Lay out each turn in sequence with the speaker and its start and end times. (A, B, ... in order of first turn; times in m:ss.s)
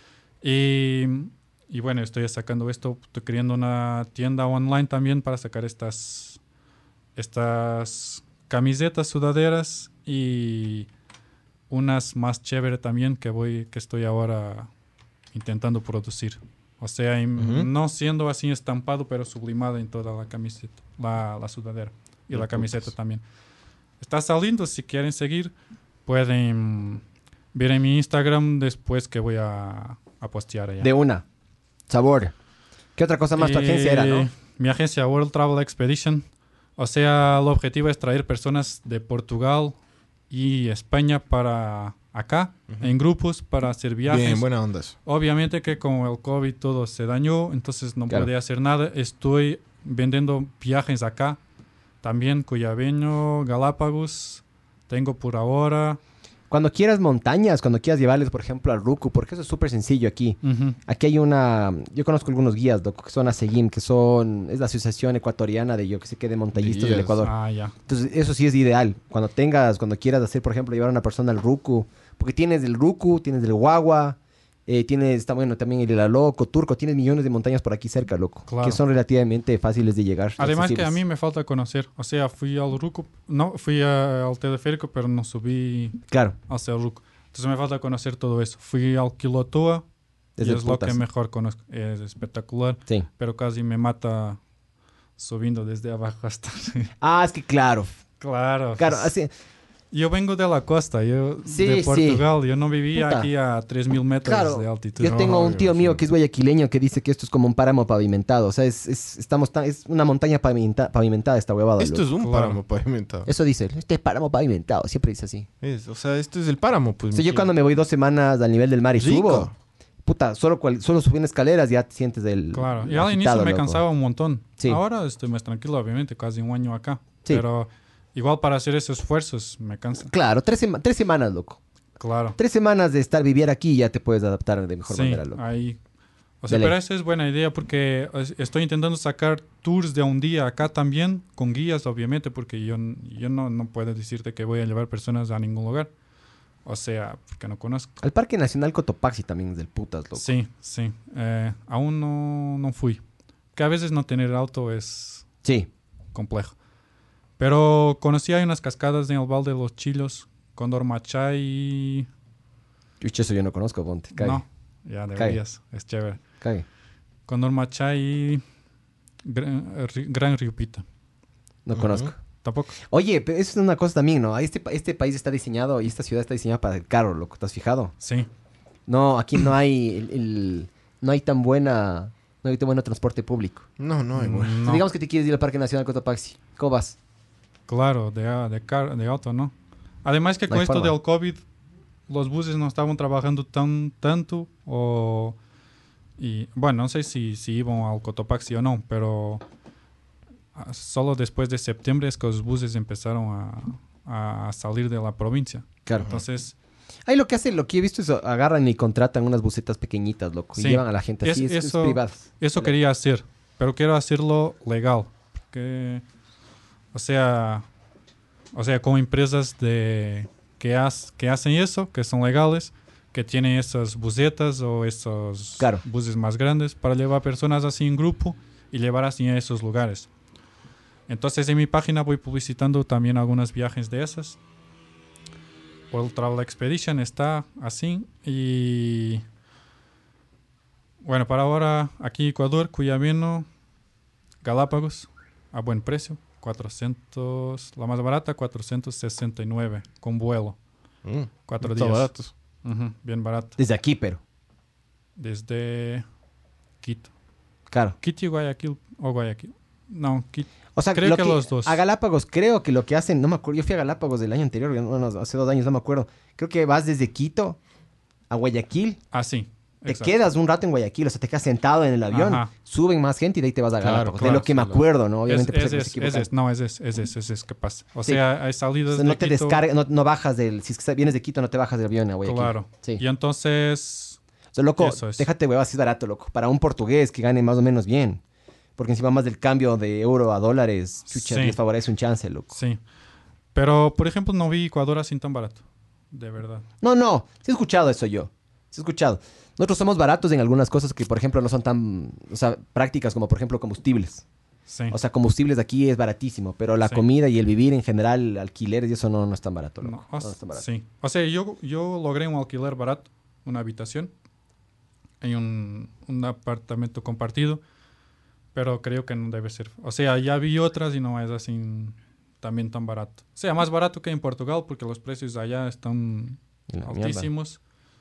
0:00.4-0:06.4 A
0:07.2-0:10.9 A
0:11.7-0:14.7 A
0:15.3-0:23.2 A
0:17.4-0:17.7 B
0:22.3-0:22.9 B
0:24.0-0:25.5 A
0:26.0-0:27.0 A
0:27.5-0:30.9 A
0:30.8-0:31.2 C
0:31.9-0:32.3 C
0:33.0-0:34.3 C
0:33.4-0:36.2 A
0:36.8-0:39.8 A
0:40.3-0:44.4 A
0:44.1-0:44.9 B
0:45.0-0:51.4 A
0:52.0-0:56.0 A
0:56.5-1:07.3 C
1:00.4-1:00.8 A
1:06.6-1:07.2 B
1:07.2-1:07.7 A
1:07.9-1:21.0 C
1:18.5-1:18.8 A
1:20.4-1:29.8 A
1:30.4-1:31.0 C
1:30.4-1:34.4 A
1:35.2-1:36.9 A
1:37.0-1:37.9 C
1:38.2-1:39.1 A
1:38.8-1:39.3 C
1:39.9-1:45.5 A
1:41.4-1:42.3 C
1:42.9-1:43.3 C
1:44.2-1:52.0 C
1:45.1-1:45.9 B
1:51.8-1:53.3 B
1:52.2-1:52.6 A
1:53.3-1:55.5 C
1:55.6-1:57.5 B
1:57.1-1:59.5 C
1:59.0-1:59.5 B
2:00.0-2:03.8 C
2:02.5-2:10.1 A
2:10.1-2:11.6 C
2:12.0-2:12.4 A
2:12.4-2:15.4 C
2:14.9-2:15.8 A
2:16.4-2:25.9 A
2:16.5-2:16.7 C
2:26.6-2:28.0 A
2:28.0-2:30.3 C
2:30.2-2:33.0 A
2:33.6-2:35.3 A
2:35.4-2:35.7 C
2:36.1-2:36.6 A
2:37.4-2:42.1 A
2:43.0-2:44.4 C
2:44.2-2:46.2 A
2:47.3-2:48.4 A
2:49.2-2:50.8 A
2:51.6-2:52.2 C
2:51.8-2:52.1 B
2:52.4-2:52.8 A
2:52.8-2:57.9 C
2:58.0-2:58.3 A
2:58.9-3:03.6 C
3:03.8-3:04.6 B
3:04.2-3:04.8 A
3:04.5-3:07.0 C
3:07.7-3:09.5 A
3:10.0-3:11.4 A
3:10.5-3:10.9 C
3:12.1-3:15.4 A
3:16.2-3:19.4 A
3:20.6-3:26.6 A
3:25.8-3:26.1 C
3:27.0-3:32.7 C
3:30.6-3:36.0 A
3:36.9-3:37.6 A
3:38.5-3:50.1 A
3:51.1-3:54.4 A
3:55.9-3:59.2 A
4:01.0-4:03.5 A
4:04.4-4:10.6 A
4:11.0-4:12.3 B
4:11.5-4:12.1 A
4:12.6-4:13.6 A
4:13.6-4:14.2 C
4:15.2-4:16.0 A
4:16.8-4:17.1 A
4:17.7-4:18.0 C
4:18.0-4:21.8 A
4:20.7-4:27.6 C
4:28.3-4:29.0 C
4:29.1-4:30.1 A
4:29.8-4:36.3 C
4:32.1-4:32.5 A
4:33.8-4:34.8 B
4:35.3-4:39.6 A
4:38.9-4:43.0 C
4:42.2-4:44.2 A
4:44.5-4:48.2 C
4:44.8-4:45.3 A
4:48.8-4:52.6 C
4:51.1-4:51.6 A
4:52.5-4:52.8 A
4:53.6-4:56.6 A
4:56.8-5:04.2 C
5:04.7-5:05.0 A
5:04.9-5:10.6 C
5:09.8-5:14.1 A
5:15.2-5:17.6 A
5:18.5-5:27.6 A
5:26.7-5:27.3 C